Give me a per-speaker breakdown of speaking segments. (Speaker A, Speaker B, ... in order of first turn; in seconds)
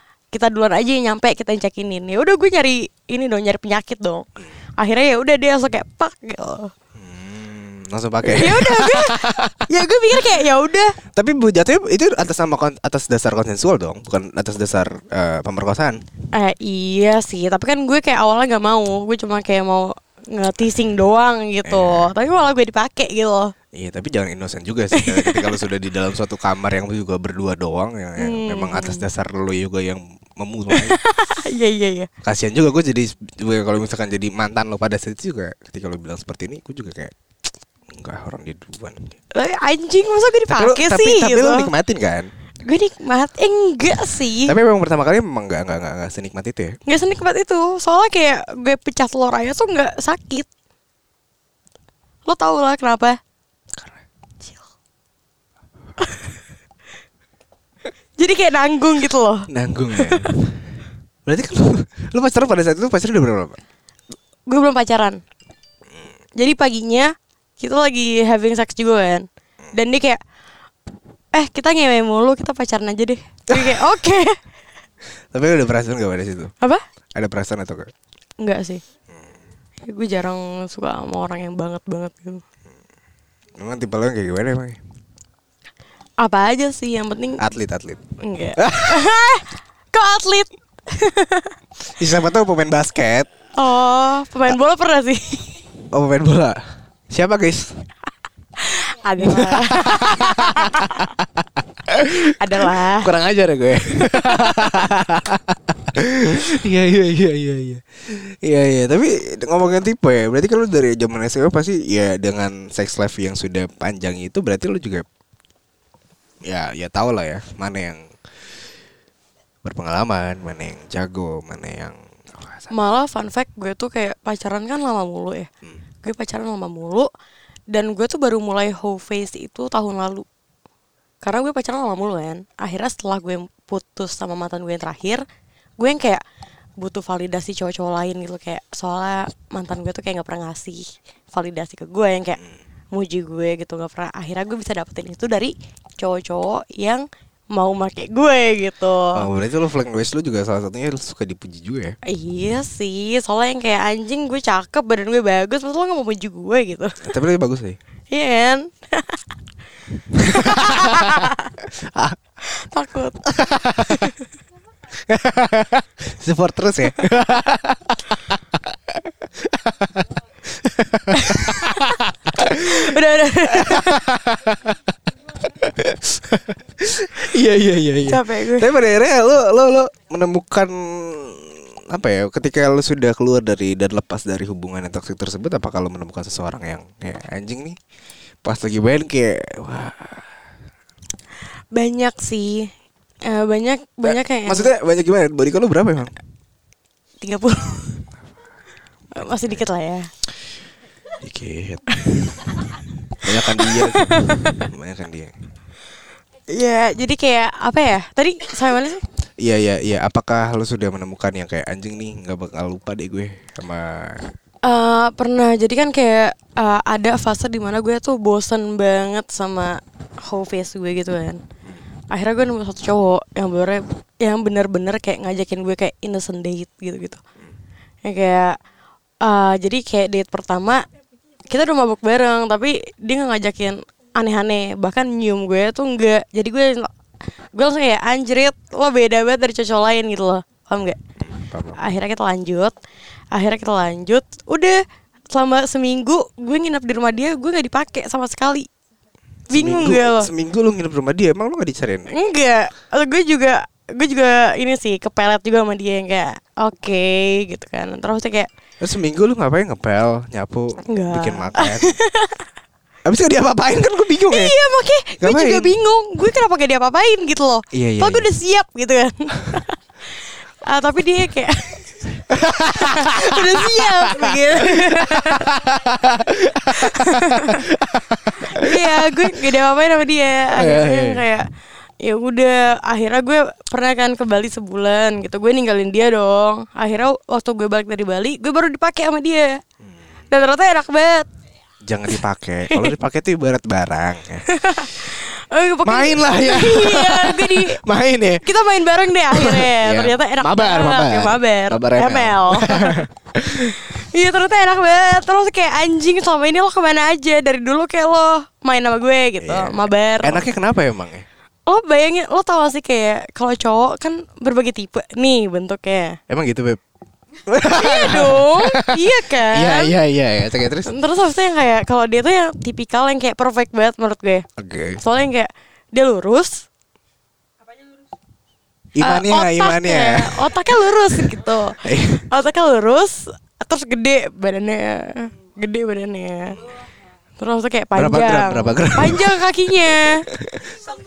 Speaker A: 0.3-6.7, 8.2-11.0, 16.3-23.5, 24.9-25.6, 28.2-29.1, 30.7-32.1, 39.3-41.7, 42.6-44.6, 46.9-50.5, 52.3-53.2, 56.0-56.3, 58.2-60.4, 64.5-65.2, 66.4-70.2, 71.3-74.4, 78.4-78.8, 79.8-82.4, 86.2-87.4, 88.2-91.5, 93.6-95.6, 98.6-101.1, 102.4-103.1, 103.9-104.8, 122.7-125.5, 126.0-127.1, 127.7-130.2, 131.2-135.2, 135.8-136.2, 136.8-149.3, 152.1-157.0, 158.1-159.2, 160.2-161.6, 162.4-164.3, 171.1-174.0, 178.0-178.7, 191.7-192.7, 193.3-194.7, 197.2-198.1, 199.2-200.1, 202.1-202.8, 203.4-204.6, 206.5-209.0, 214.7-221.4, 222.1-227.2, 228.0-228.6, 229.2-230.8, 231.5-236.9, 237.5-241.0, 241.8-242.8, 243.3-248.7, 249.5-250.3, 252.1-258.5, 260.9-262.4, 264.3-269.8, 270.7-275.6, 276.7-277.6, 278.4-281.5, 282.0-289.6, 290.3-291.3, 294.5-297.8, 298.4-303.1, 303.6-310.4, 311.7-316.2, 317.7-319.9, 320.9-324.5, 325.0-326.7, 329.0-336.7, 337.4-340.3
Speaker B: 7.0-10.4, 11.1-16.0, 21.6-22.2, 23.7-31.0, 32.2-37.1, 37.9-39.2, 40.5-42.3, 44.5-46.8, 59.5-60.6, 61.3-63.6, 73.5-73.8, 75.3-76.5, 77.2-77.9, 83.6-84.8, 87.4-88.1, 88.6-89.1, 92.0-93.3, 95.9-96.6, 97.1-97.8, 99.2-115.0, 116.5-118.2, 119.6-122.7, 149.1-151.9, 157.0-157.8, 160.2-162.2, 163.3-164.1, 164.9-168.4, 168.9-172.9, 173.5-174.8, 175.4-187.8, 188.4-190.3, 194.1-196.1, 201.1-202.3, 203.1-205.3, 209.4-214.3, 241.2-241.8, 249.5-252.1, 258.8-262.0, 263.1-264.6, 265.2-265.7, 267.7-268.3, 272.3-279.6, 280.4-281.2, 291.9-295.1, 295.8-298.4, 299.3-303.8, 309.4-311.3, 316.3-316.8, 317.5-320.9, 324.6-325.0, 328.9-332.3, 337.9-339.5, 340.3-340.8